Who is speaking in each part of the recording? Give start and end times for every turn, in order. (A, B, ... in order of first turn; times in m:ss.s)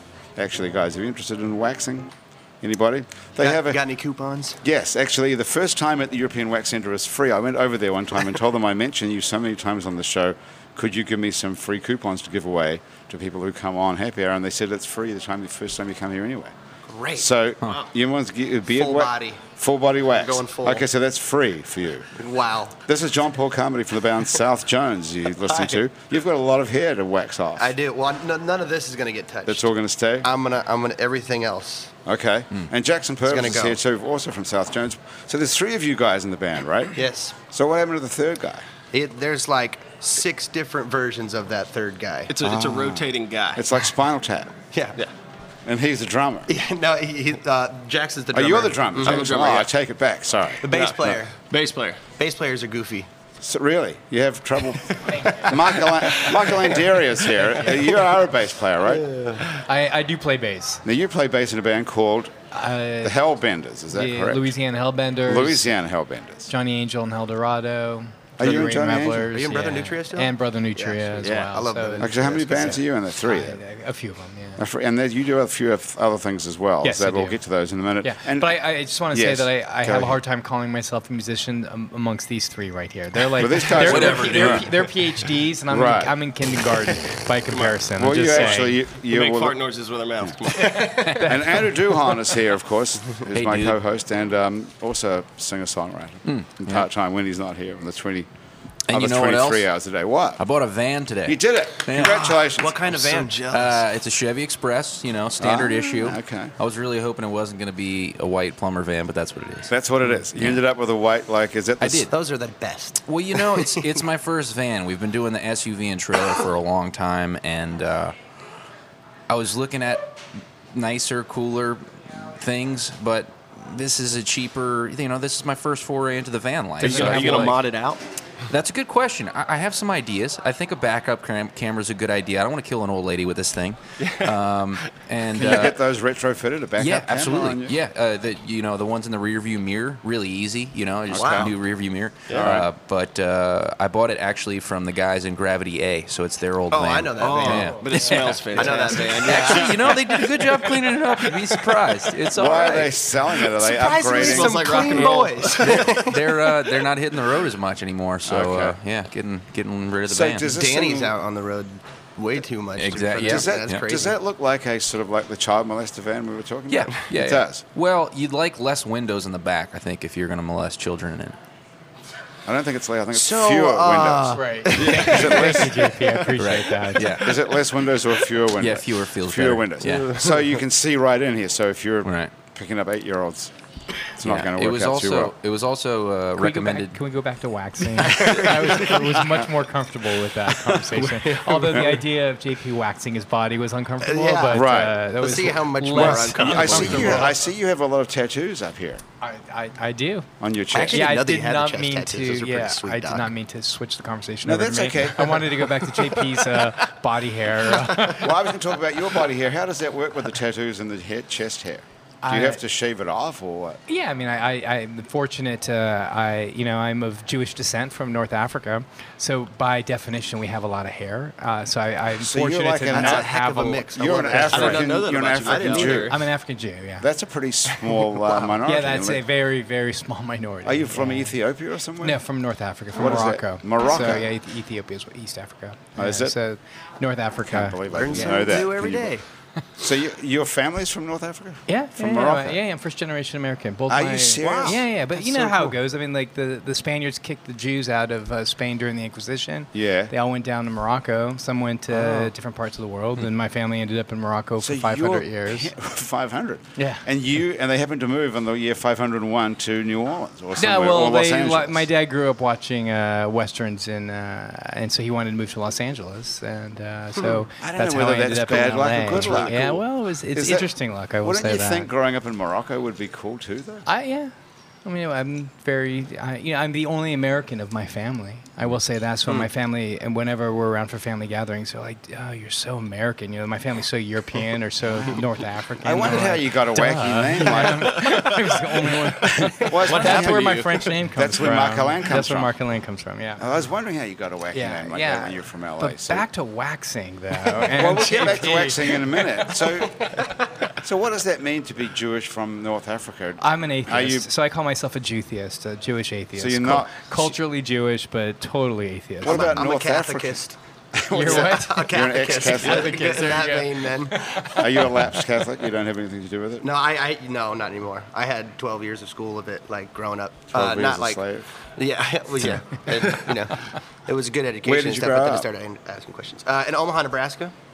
0:00.4-0:02.1 A
0:02.6-0:03.8 A
0:03.4-0:04.6 B
0:04.6-0:16.5 A
0:16.9-0:17.3 B
0:17.1-0:22.1 A
0:18.7-0:19.4 B
0:20.1-0:20.8 B
0:22.2-0:22.8 B
0:22.9-0:27.8 A
0:25.5-0:25.8 B
0:27.6-0:29.6 B
0:29.5-0:30.3 A
0:30.2-0:31.9 B
0:32.1-0:37.0 A
0:33.3-0:33.8 B
0:37.0-0:37.4 B
0:37.5-0:38.7 A
0:38.9-0:42.3 B
0:42.3-0:43.7 C
0:42.4-0:44.5 A
0:45.6-0:46.5 A
0:46.5-0:49.5 B
0:48.3-0:51.2 A
0:49.0-0:49.7 C
0:50.6-0:51.4 B
0:50.7-0:52.0 C
0:52.1-0:53.1 B
0:53.4-0:59.1 A
0:55.2-0:55.4 D
0:55.2-0:56.4 B
0:58.9-0:59.4 B
0:59.5-1:00.8 D
1:00.8-1:02.4 A
1:02.5-1:03.2 D
1:03.0-1:04.6 A
1:03.9-1:05.7 D
1:05.2-1:06.5 A
1:06.5-1:14.6 D
1:08.4-1:09.3 A
1:09.2-1:12.8 B
1:12.0-1:13.6 A
1:14.6-1:18.6 A
1:16.8-1:17.4 D
1:18.0-1:28.8 D
1:19.1-1:20.2 A
1:23.4-1:24.7 A
1:23.8-1:24.5 C
1:25.7-1:26.1 A
1:27.5-1:31.3 C
1:28.0-1:29.6 A
1:30.8-1:31.3 D
1:30.9-1:31.2 E
1:31.2-1:38.3 A
1:33.3-1:33.8 E
1:36.3-1:36.9 E
1:38.9-1:39.7 E
1:38.9-1:40.4 A
1:40.4-1:42.3 E
1:41.3-1:43.0 A
1:42.0-1:43.8 B
1:42.9-1:50.6 E
1:45.4-1:46.5 A
1:49.7-1:52.1 A
1:51.8-1:52.1 E
1:52.1-1:54.0 B
1:53.1-1:58.2 E
1:59.3-2:00.2 E
2:00.7-2:07.7 E
2:06.8-2:08.0 C
2:06.8-2:07.5 A
2:08.5-2:15.8 E
2:14.0-2:14.9 C
2:15.3-2:17.8 A
2:16.8-2:33.0 E
2:21.1-2:21.6 A
2:21.2-2:21.5 B
2:22.3-2:22.6 C
2:22.3-2:22.7 A
2:26.7-2:30.8 B
2:27.2-2:30.2 C
2:32.3-2:34.8 A
2:33.4-2:36.8 B
2:34.0-2:36.1 C
2:35.6-2:40.6 E
2:38.2-2:38.8 A
2:40.1-2:41.2 A
2:40.5-2:44.2 B
2:42.8-2:43.9 E
2:43.2-2:47.6 A
2:46.7-2:51.4 E
2:52.5-2:55.9 A
2:53.1-2:56.0 B
2:54.4-2:57.2 D
2:55.0-2:55.4 C
2:56.4-2:57.4 E
2:57.1-3:03.5 A
2:58.6-3:00.2 E
3:02.0-3:02.3 E
3:04.2-3:05.3 A
3:04.2-3:07.0 E
3:06.4-3:17.3 D
3:08.0-3:09.3 B
3:11.0-3:12.0 B
3:14.0-3:14.6 B
3:14.5-3:15.0 A
3:15.2-3:17.4 B
3:15.9-3:19.0 A
3:19.2-3:20.3 D
3:20.4-3:21.2 A
3:20.7-3:23.3 B
3:20.9-3:28.3 D
3:24.4-3:25.7 A
3:26.0-3:26.6 B
3:27.6-3:28.1 B
3:28.1-3:33.8 A
3:32.2-3:32.6 D
3:33.9-3:44.6 D
3:42.2-3:43.3 A
3:42.9-3:46.1 B
3:44.0-3:46.2 A
3:44.5-3:46.2 C
3:46.1-3:47.1 D
3:47.0-3:49.2 A
3:48.1-3:48.5 B
3:48.6-3:51.4 D
3:50.6-3:52.2 A
3:52.0-3:58.6 D
3:52.9-3:54.3 A
3:56.0-3:56.4 A
3:57.5-3:59.2 A
3:57.9-3:59.2 B
3:59.8-4:02.6 A
4:01.7-4:15.7 D
4:03.9-4:05.7 A
4:04.4-4:05.7 B
4:09.7-4:10.1 A
4:14.6-4:21.9 A
4:16.8-4:17.0 D
4:20.6-4:31.9 D
4:27.6-4:33.9 A
4:33.9-4:34.3 D
4:34.8-4:53.4 D
4:44.9-4:45.3 A
4:45.8-4:48.3 A
4:48.0-4:51.0 C
4:49.4-4:52.5 A
4:53.4-4:56.3 A
4:54.5-4:59.6 D
4:57.5-5:00.2 A
5:00.8-5:04.3 A
5:03.4-5:09.6 D
5:06.4-5:07.3 A
5:09.2-5:10.4 A
5:09.2-5:10.6 B
5:10.9-5:13.1 A
5:11.1-5:11.9 D
5:11.1-5:14.4 B
5:12.4-5:15.2 D
5:12.9-5:13.4 C
5:14.5-5:16.7 A
5:16.6-5:21.2 B
5:20.5-5:21.5 A
5:21.8-5:27.5 B
5:24.6-5:25.5 A